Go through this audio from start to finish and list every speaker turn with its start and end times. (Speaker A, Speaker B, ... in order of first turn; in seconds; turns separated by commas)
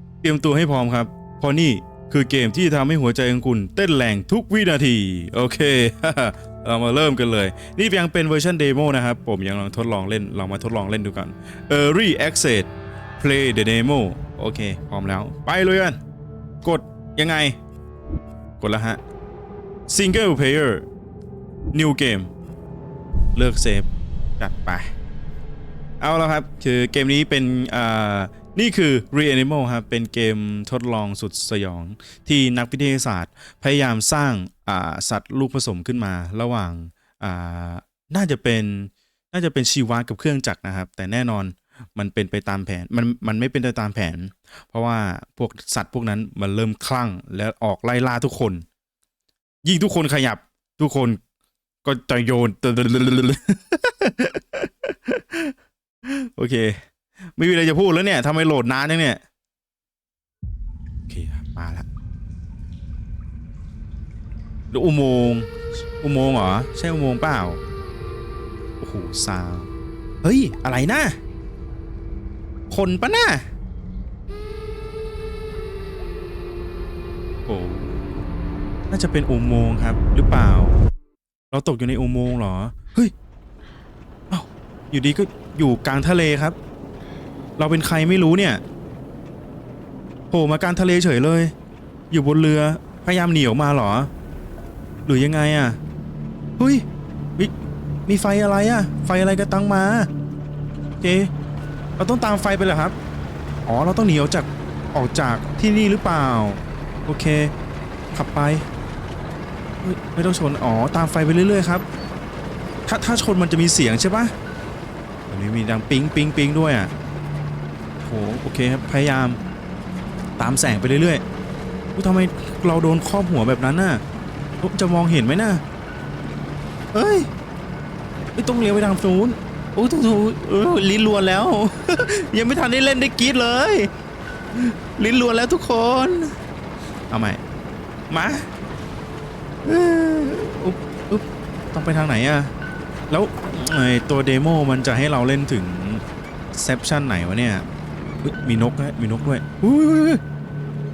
Speaker A: 0.2-16.0, Speaker A: 16.6-17.6, Speaker A: 18.6-19.0, Speaker A: 19.9-20.9, Speaker A: 21.7-22.3, Speaker A: 23.3-23.9, Speaker A: 24.4-24.9, Speaker A: 26.0-48.6, Speaker A: 49.6-51.2, Speaker A: 51.8-55.5, Speaker A: 56.0-56.7, Speaker A: 57.4-59.2, Speaker A: 61.1-61.8, Speaker A: 64.7-67.6, Speaker A: 68.8-69.7, Speaker A: 70.2-71.1, Speaker A: 72.7-73.4, Speaker A: 77.5-78.0, Speaker A: 78.9-80.7, Speaker A: 81.5-83.1, Speaker A: 84.3-86.5, Speaker A: 87.6-88.6, Speaker A: 90.3-91.5, Speaker A: 92.1-94.1, Speaker A: 95.0-95.8, Speaker A: 96.6-96.8, Speaker A: 98.0-100.1, Speaker A: 101.0-101.3, Speaker A: 102.0-103.0, Speaker A: 103.7-107.5, Speaker A: 108.1-108.6, Speaker A: 109.8-111.8, Speaker A: 112.8-114.3, Speaker A: 115.3-116.9, Speaker A: 118.0-119.4, Speaker A: 120.4-121.2, Speaker A: 121.9-124.0, Speaker A: 124.6-125.6, Speaker A: 126.9-127.3, Speaker A: 128.3-133.9, Speaker A: 134.5-136.3, Speaker A: 137.1-137.4, Speaker A: 138.1-138.4, Speaker A: 139.6-142.5, Speaker A: 143.1-147.6, Speaker A: 148.2-150.2